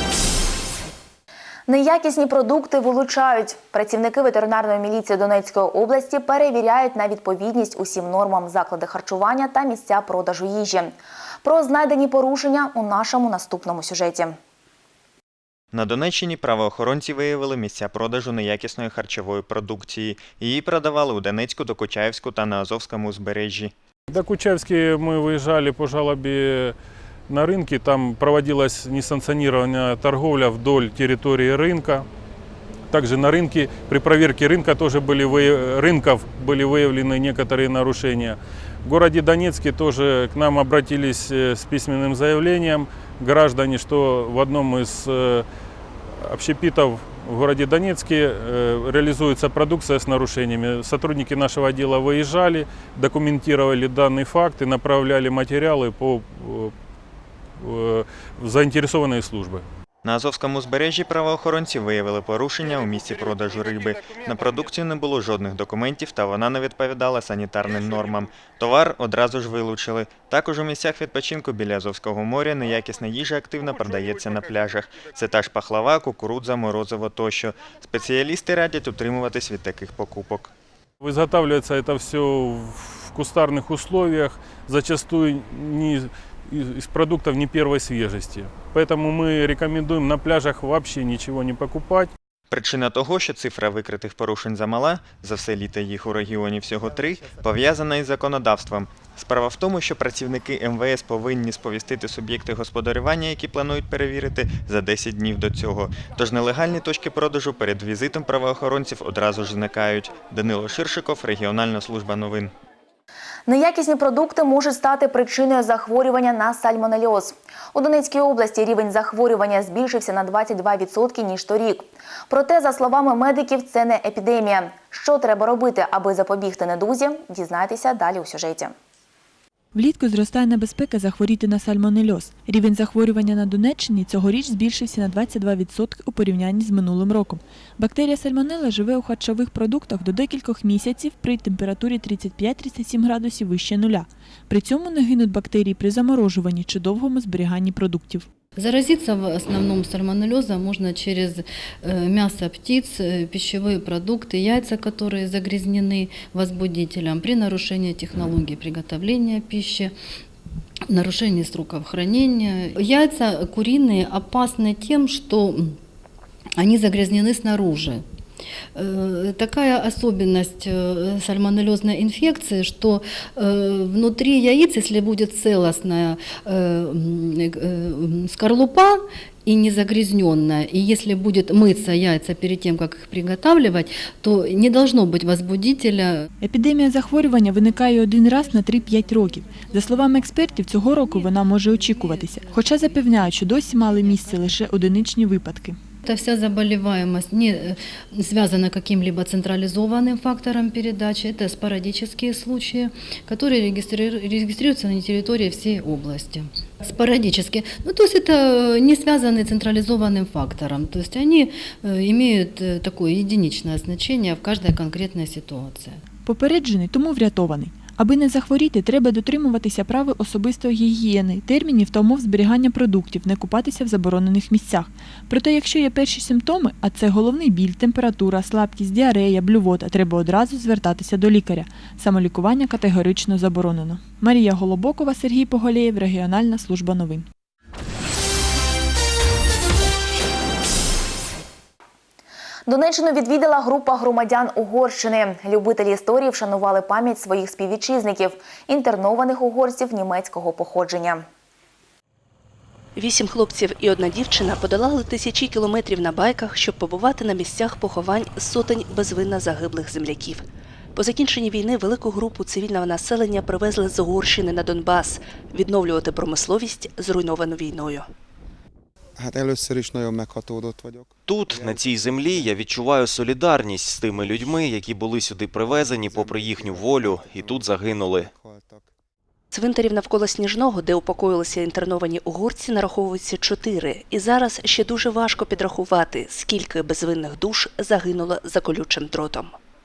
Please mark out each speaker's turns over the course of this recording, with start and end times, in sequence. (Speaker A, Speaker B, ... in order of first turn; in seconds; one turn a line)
Speaker A: 1.7-14.3
Speaker B: 15.7-23.7
Speaker C: 24.1-26.7
Speaker C: 27.3-32.0
Speaker C: 32.9-45.5
Speaker C: 46.3-56.7
Speaker C: 57.6-59.6
Speaker B: 60.0-80.5
Speaker C: 81.0-92.1
Speaker B: 92.5-112.5
Speaker A: 113.5-128.7
Speaker D: 129.7-148.2
Speaker E: 148.6-159.9
Speaker E: 160.9-165.8
Speaker E: 166.6-168.0
Speaker E: 168.7-186.2
Speaker D: 186.4-195.8
Speaker E: 191.1-194.5
Speaker E: 196.0-216.0
Speaker D: 216.2-237.2
Speaker A: 242.7-251.2
Speaker F: 253.0-268.1
Speaker G: 269.2-271.8
Speaker H: 271.2-278.3
Speaker G: 278.3-278.9
Speaker F: 279.5-289.5